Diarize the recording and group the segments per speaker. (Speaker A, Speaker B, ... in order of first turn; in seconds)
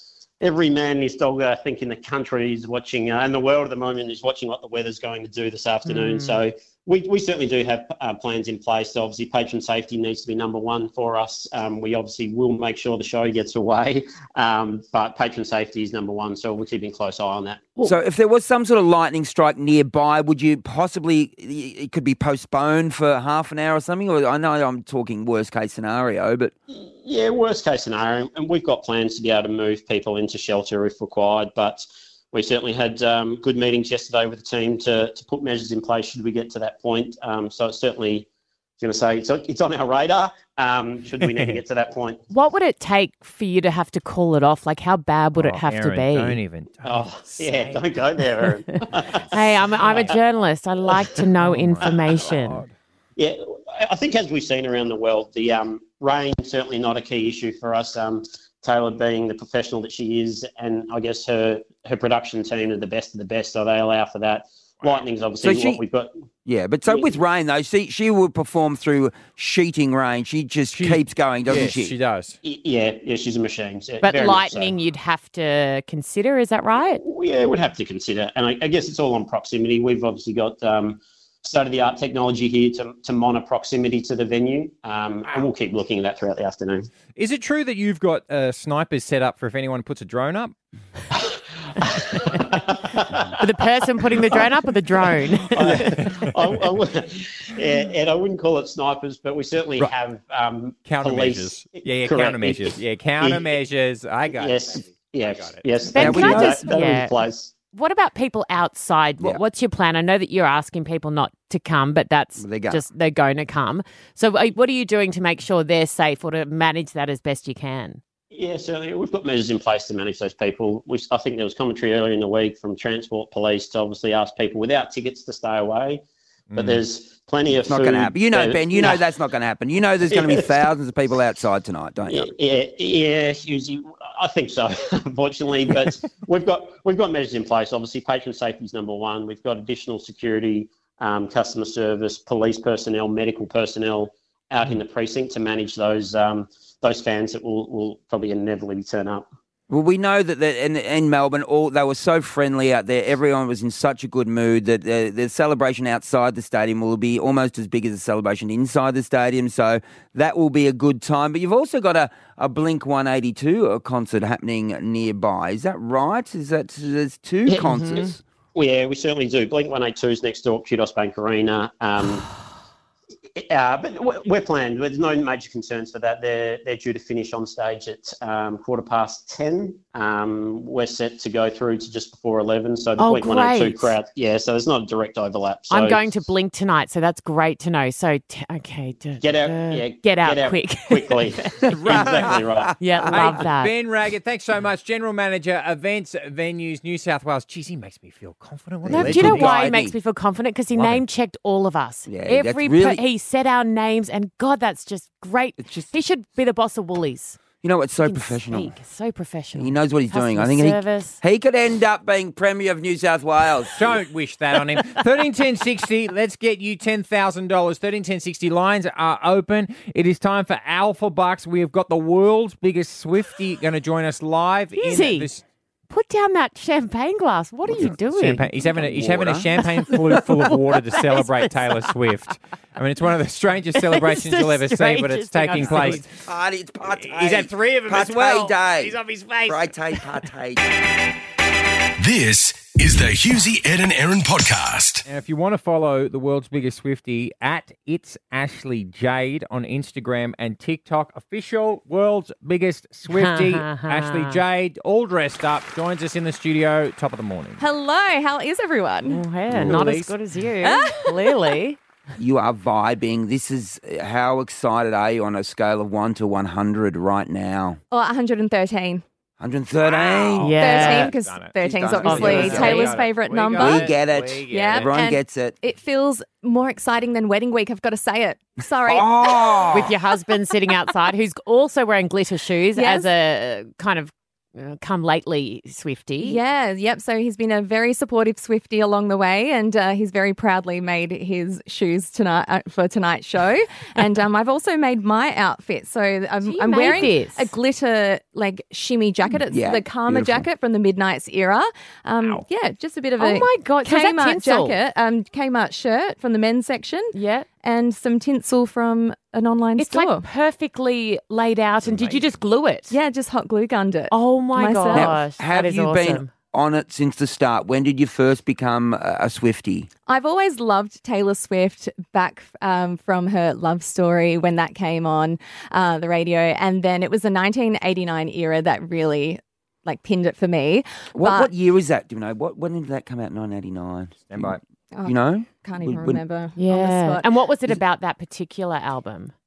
Speaker A: 0.4-17.8, 26.7-38.3, 38.8-42.2, 46.8-50.2, 51.8-52.1, 53.1-66.1, 66.9-67.2, 72.4-74.8, 77.0-86.9, 91.1-93.4, 95.5-103.6, 104.3-107.5, 118.3-126.0, 126.5-129.1, 130.1-130.7, 132.1-149.3, 167.5-172.3, 173.3-186.1, 189.2-192.8
Speaker B: 5.8-6.4, 42.3-46.4, 49.3-52.6, 74.0-77.0, 93.4-96.0, 105.9-107.2, 107.7-118.0, 183.0-183.9, 185.7-191.4, 192.8-193.7, 198.9-207.4, 208.0-211.2, 224.7-225.3, 225.9-228.5, 229.8-231.9, 233.7-236.1, 253.1-254.4, 259.1-261.8, 270.4-271.1, 272.0-272.9, 279.7-286.4, 296.4-297.5, 303.2-304.8, 307.1-307.5, 309.8-312.9, 314.1-316.3, 336.6-339.3
Speaker C: 17.8-26.5, 65.4-65.8, 66.4-72.0, 106.0-106.6, 112.4-112.8, 127.7-132.3, 149.7-168.2, 198.8-199.9, 202.1-203.0, 205.6-205.9, 207.6-208.8, 209.6-214.0, 228.5-229.7, 235.6-240.7, 262.2-267.8, 269.4-270.6, 271.6-273.0, 273.6-275.6, 278.9-279.9, 299.3-300.5, 314.9-319.9, 331.1-336.2
Speaker D: 41.2-41.6, 45.4-47.9, 49.0-50.1, 51.4-52.7, 64.8-65.0, 70.7-72.4, 87.2-90.5, 95.7-96.3, 100.8-105.7, 126.5-126.8, 191.7-192.4, 193.1-199.6, 200.7-201.0, 213.7-225.4, 228.1-236.2, 236.8-240.0, 245.1-257.6, 259.5-260.1, 269.8-275.0, 311.8-312.4, 334.3-334.6
Speaker E: 242.0-245.1
Speaker F: 257.6-259.2, 260.6-261.5, 267.9-269.0, 270.5-273.9, 274.4-279.7, 282.7-283.1, 286.2-310.2, 312.9-315.3, 320.1-331.5, 334.9-337.3